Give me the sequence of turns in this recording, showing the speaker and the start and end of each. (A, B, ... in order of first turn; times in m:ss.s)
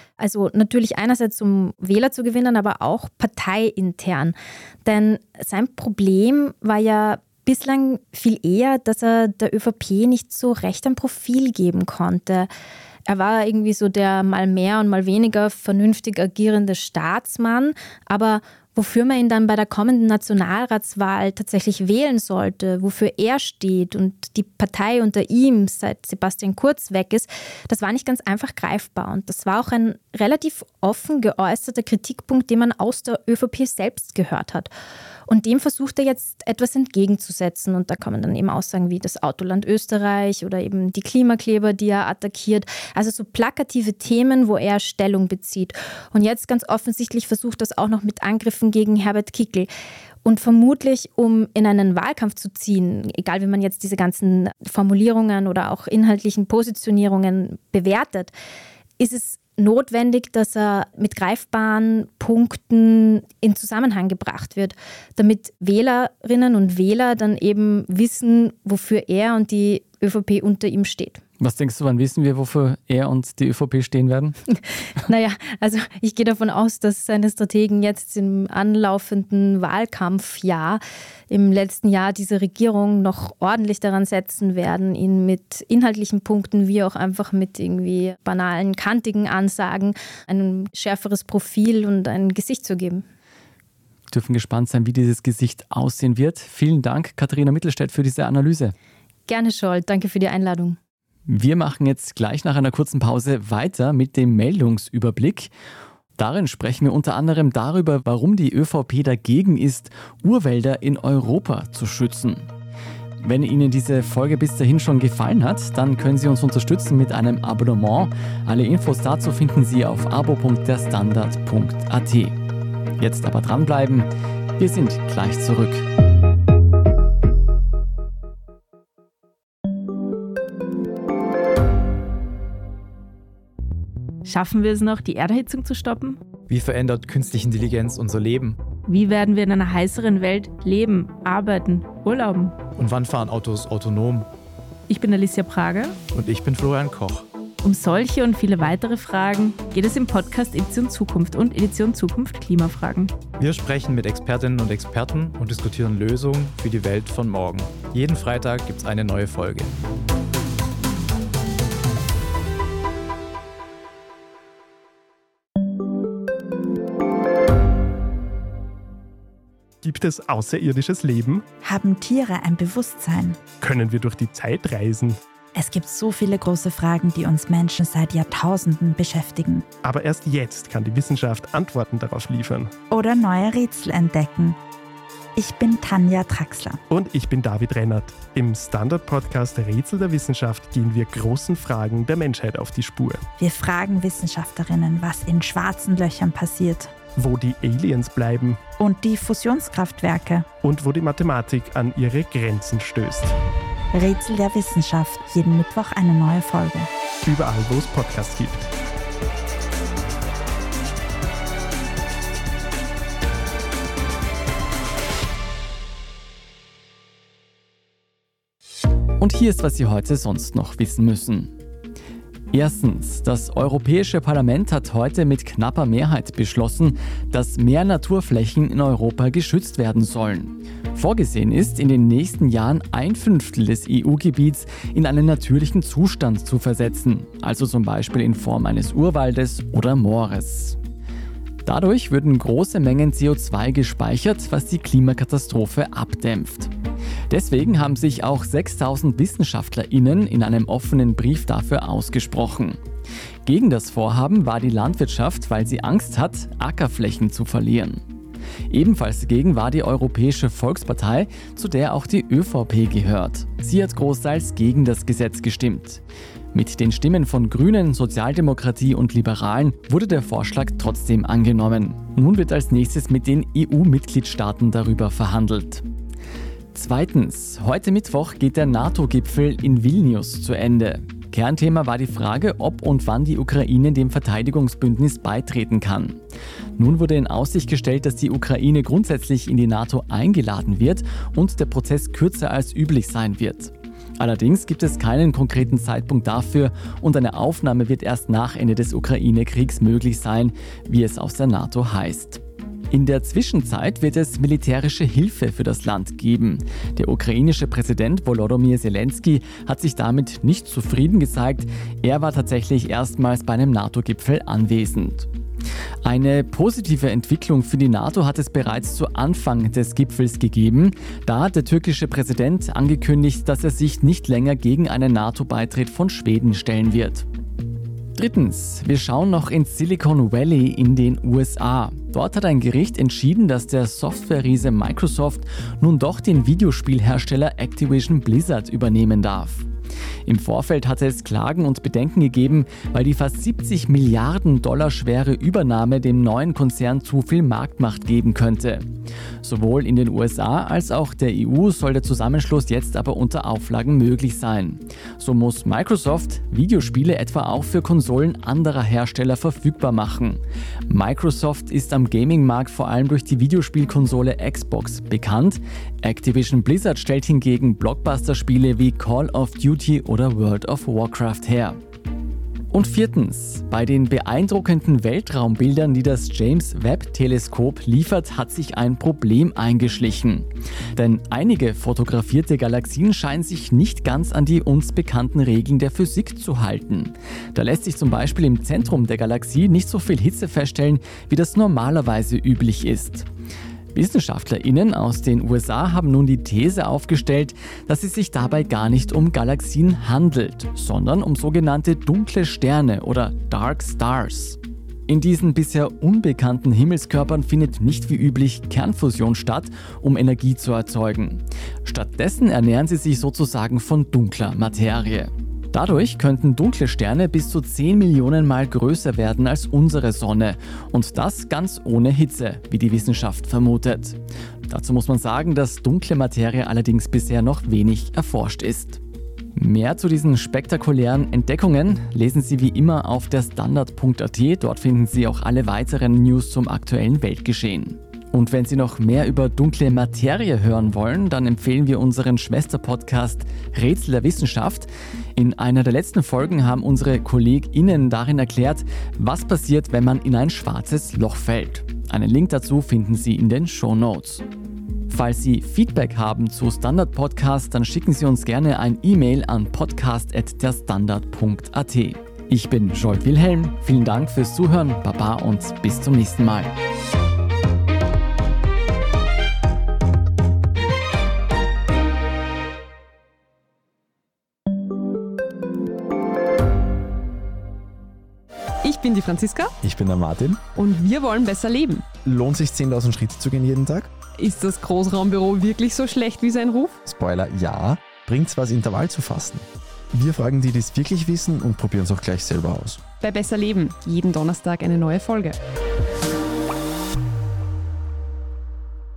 0:00.2-0:12.5 A
0:13.1-0:34.7 A
0:35.3-0:49.7 A
0:50.2-0:58.3 A
0:59.0-1:11.2 A
1:11.4-1:14.4 B
1:15.0-1:33.0 A
1:34.1-1:38.7 B
1:39.3-1:40.8 A
1:41.3-1:45.5 B
1:46.2-1:52.5 B
1:53.2-2:02.4 B
2:03.0-2:05.8 B
2:14.2-2:16.2 C
2:16.5-2:18.6 D
2:18.9-2:22.6 C
2:22.7-2:24.3 D
2:24.9-2:26.0 C
2:26.1-2:27.3 D
2:27.6-2:33.2 C
2:33.4-2:39.8 D
2:49.8-2:51.5 E
2:51.6-2:53.4 F
2:53.6-2:55.2 E
2:55.6-2:59.6 F
2:59.8-3:02.7 E
3:02.9-3:04.6 F
3:05.4-3:06.8 F
3:06.9-3:13.2 E
3:13.4-3:16.9 F
3:17.2-3:18.6 E
3:18.8-3:20.5 F
3:20.6-3:23.4 E
3:23.9-3:26.9 F
3:27.2-3:28.7 E
3:39.2-3:41.5 B
3:42.5-4:00.8 B
4:01.6-4:06.7 B
4:07.3-4:12.8 B
4:13.4-4:18.0 B
4:18.7-4:26.0 B
4:26.5-4:35.8 B
4:36.7-4:46.2 B
4:46.8-5:15.3 B
5:16.0-5:27.2 B
5:28.2-5:39.7 B
5:40.3-5:48.9 B
5:49.4-6:11.8 B
6:12.7-6:33.3 B
6:33.9-7:09.0 B
7:09.6-7:34.4 B
7:35.1-7:46.7 B
7:58.8-7:59.8 G
8:00.7-8:02.1 G
8:02.7-8:03.8 H
8:04.3-8:07.0 G
8:07.1-8:09.5 H
8:10.2-8:13.0 H
8:13.1-8:15.6 G